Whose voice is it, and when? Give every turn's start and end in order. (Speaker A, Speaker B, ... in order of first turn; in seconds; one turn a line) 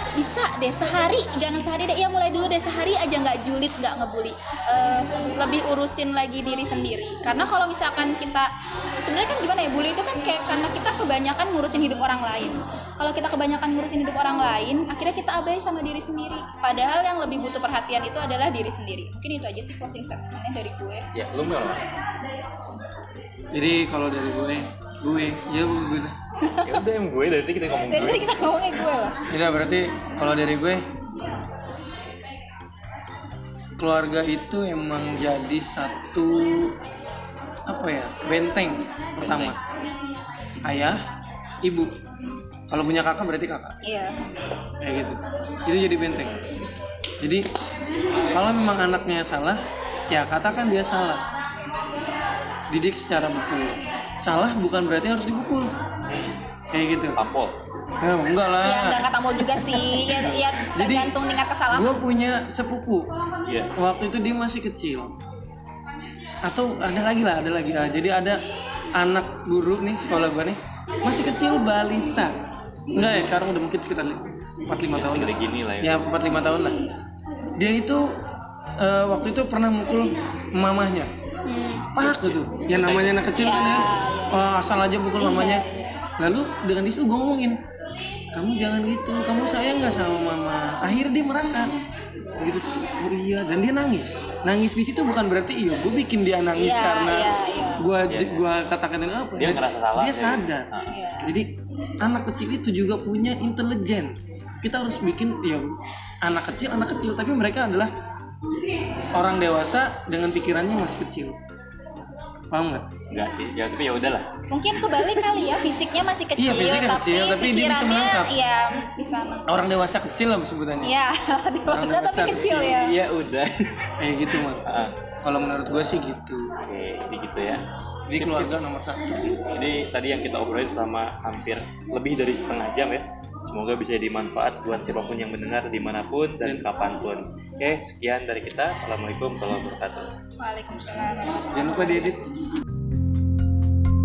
Speaker A: 0.1-8.5
Speaker A: 9.0-21.1
Speaker B: 21.1-21.8
Speaker C: 23.5-26.1
Speaker A: 26.4-26.8
Speaker B: 26.6-28.7
Speaker A: 27.8-29.3
Speaker C: 29.3-30.9
Speaker C: 33.8-36.8
Speaker C: 37.7-39.6
Speaker B: 39.2-39.6
Speaker C: 40.6-41.0
Speaker C: 41.6-42.0
Speaker C: 42.7-43.8
Speaker A: 43.8-44.2
Speaker C: 44.8-46.3
Speaker B: 46.2-46.6
Speaker C: 47.2-47.5
Speaker C: 48.2-51.3
Speaker C: 52.7-55.7
Speaker B: 56.1-56.4
Speaker C: 56.7-57.2
Speaker B: 57.2-57.5
Speaker C: 58.0-61.1
Speaker A: 58.6-62.0
Speaker C: 61.7-63.1
Speaker B: 63.5-63.7
Speaker C: 63.8-65.1
Speaker C: 66.4-68.4
Speaker C: 69.0-72.3
Speaker C: 72.9-76.8
Speaker B: 74.9-76.1
Speaker C: 77.6-81.1
Speaker A: 81.5-81.9
Speaker C: 82.0-85.7
Speaker B: 82.0-83.3
Speaker A: 83.3-84.5
Speaker A: 85.2-86.0
Speaker C: 86.2-87.6
Speaker C: 88.3-91.7
Speaker C: 92.4-100.7
Speaker A: 96.5-97.9
Speaker B: 98.1-98.5
Speaker B: 99.4-101.0
Speaker A: 100.9-101.3
Speaker C: 101.2-107.9
Speaker C: 109.1-111.4
Speaker C: 112.5-112.9
Speaker B: 113.1-115.4
Speaker A: 114.5-119.6
Speaker C: 116.4-118.3
Speaker C: 119.5-120.9
Speaker A: 120.8-122.9
Speaker C: 121.7-122.7
Speaker B: 122.3-125.0
Speaker C: 124.0-124.7
Speaker C: 125.2-126.5
Speaker B: 126.6-128.5
Speaker C: 128.1-129.4
Speaker B: 129.4-140.1
Speaker A: 140.4-142.3
Speaker C: 141.5-142.2